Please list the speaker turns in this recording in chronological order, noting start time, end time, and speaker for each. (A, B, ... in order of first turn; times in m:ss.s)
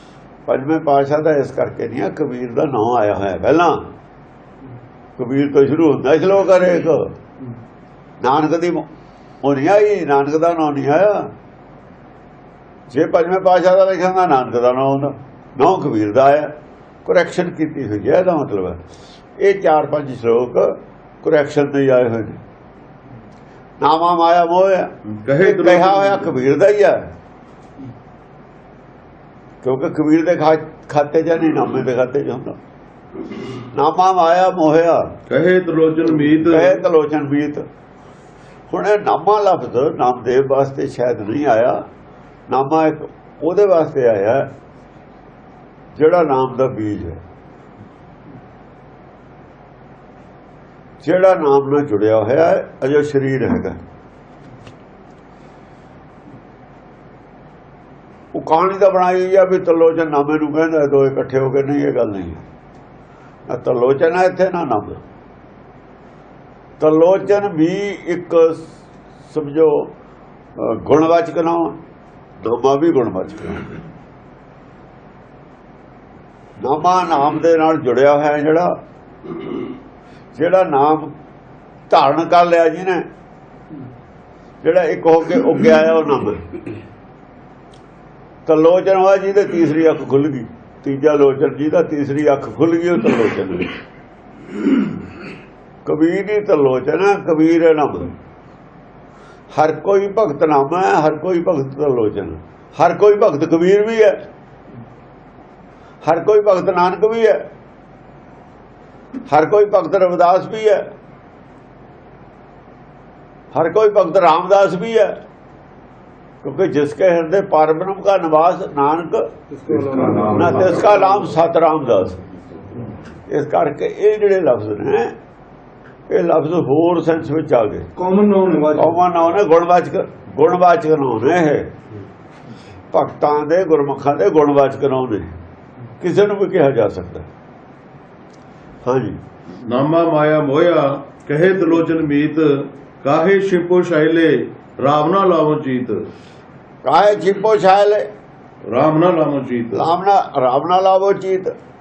0:00.4-0:03.8 A
0:05.2-0:07.1 A
0:08.2-0:08.8 A
0:09.4-0:11.3 A
0:12.9-0:16.5 A
0:17.0-0:18.8 A
0:19.4-0:22.4 A
0:23.8-0:27.1 A
0:25.1-0:26.3 B
0:29.6-0:32.6 A
0:33.5-0:35.1 A
0:35.3-0:36.8 B
0:36.1-0:37.7 A
0:38.7-0:41.8 A
0:42.5-0:44.5 A
0:45.9-0:47.2 A
0:51.0-0:53.8 A
0:58.3-1:02.4 A
1:03.5-1:05.0 A
1:06.8-1:08.7 A
1:09.3-1:09.9 A
1:10.6-1:11.8 A
1:12.4-1:13.7 A
1:16.6-1:18.7 A
1:20.3-1:21.1 A
1:21.9-1:23.0 A
1:24.6-1:26.4 A
1:28.4-1:33.7 A
1:35.8-1:38.1 A
1:39.5-1:44.2 A
1:46.0-1:47.4 A
1:49.3-1:50.8 A
1:53.5-1:55.1 A
1:56.4-1:59.3 A
1:59.5-2:01.1 C
1:59.7-2:00.6 B
2:00.3-2:02.2 A
2:03.3-2:05.1 A
2:06.1-2:07.9 A
2:08.0-2:08.9 C
2:08.7-2:11.7 A
2:12.9-2:15.3 A
2:16.0-2:17.3 A
2:18.8-2:19.2 A
2:19.6-2:26.1 B
2:26.8-2:28.1 A
2:28.6-2:29.9 B
2:29.7-2:31.5 A